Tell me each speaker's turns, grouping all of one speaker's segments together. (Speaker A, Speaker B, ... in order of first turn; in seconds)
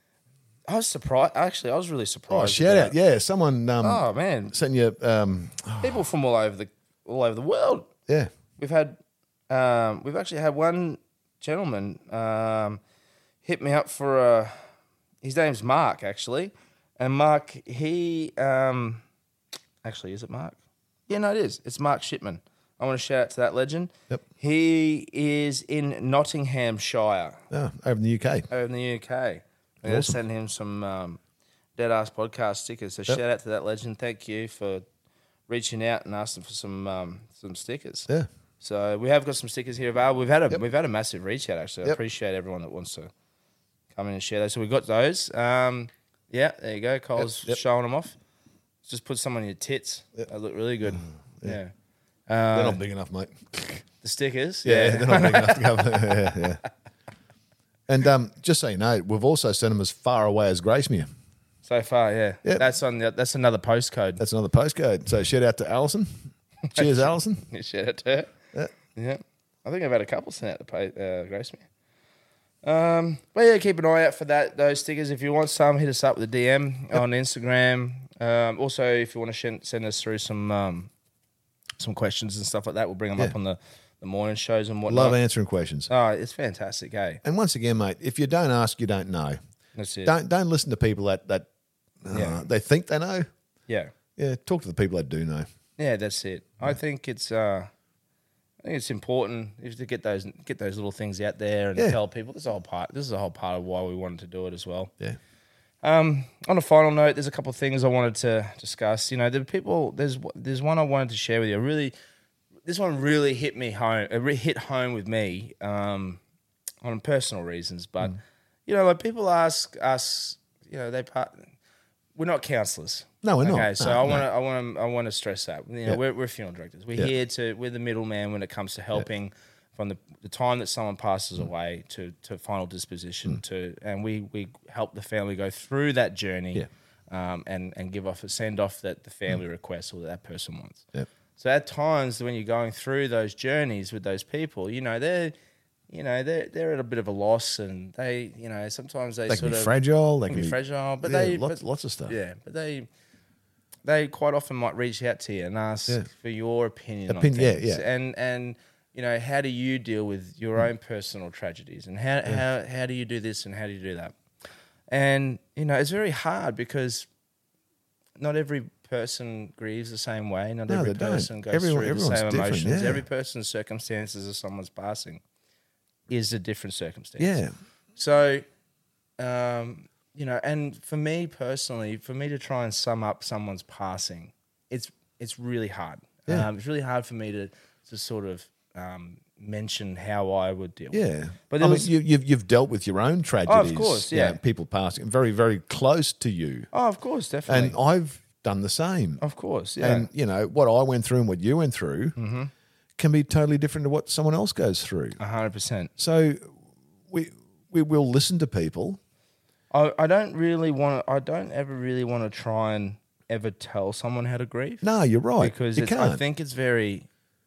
Speaker A: 0.7-3.0, 3.8-4.5, 5.8-7.9, 8.6-9.0, 9.5-12.8, 13.4-14.6, 15.2-19.0, 19.8-20.6, 21.1-27.4, 28.5-31.2, 31.8-34.8, 35.5-38.1, 38.6-43.1, 43.9-48.1, 48.9-51.7, 52.3-52.8, 54.0-56.4, 61.6-64.2, 66.7-68.3, 69.0-71.7, 72.6-80.9, 81.8-85.2, 85.9-87.2, 89.8-90.1, 92.1-92.5, 93.7-93.9, 95.8-97.7, 98.6-104.9, 105.8-111.9, 112.7-116.2, 116.8-121.5, 122.2-140.8, 141.4-145.3, 145.9-149.7, 150.3-152.9, 153.8-164.1, 164.9-167.1, 168.2-175.2, 176.1-177.4, 177.9-178.4, 179.2-191.9, 193.5-194.4, 196.7-197.8, 199.2-200.1, 202.2-202.5, 205.2-205.9, 209.7-214.8, 215.4-217.1
Speaker B: 2.3-6.0, 27.5-28.5, 29.8-30.2, 47.2-47.6, 50.9-51.6, 52.5-53.8, 54.6-56.6, 57.9-61.1, 64.2-67.5, 84.9-85.9, 87.2-89.4, 90.0-91.5, 92.0-93.3, 94.2-95.5, 123.2-124.2, 149.3-152.2, 157.1-157.8, 170.7-173.0, 177.2-177.5, 190.9-196.7, 197.5-199.2, 199.8-202.2, 203.0-205.2, 206.0-206.6, 207.1-209.0, 214.8-216.2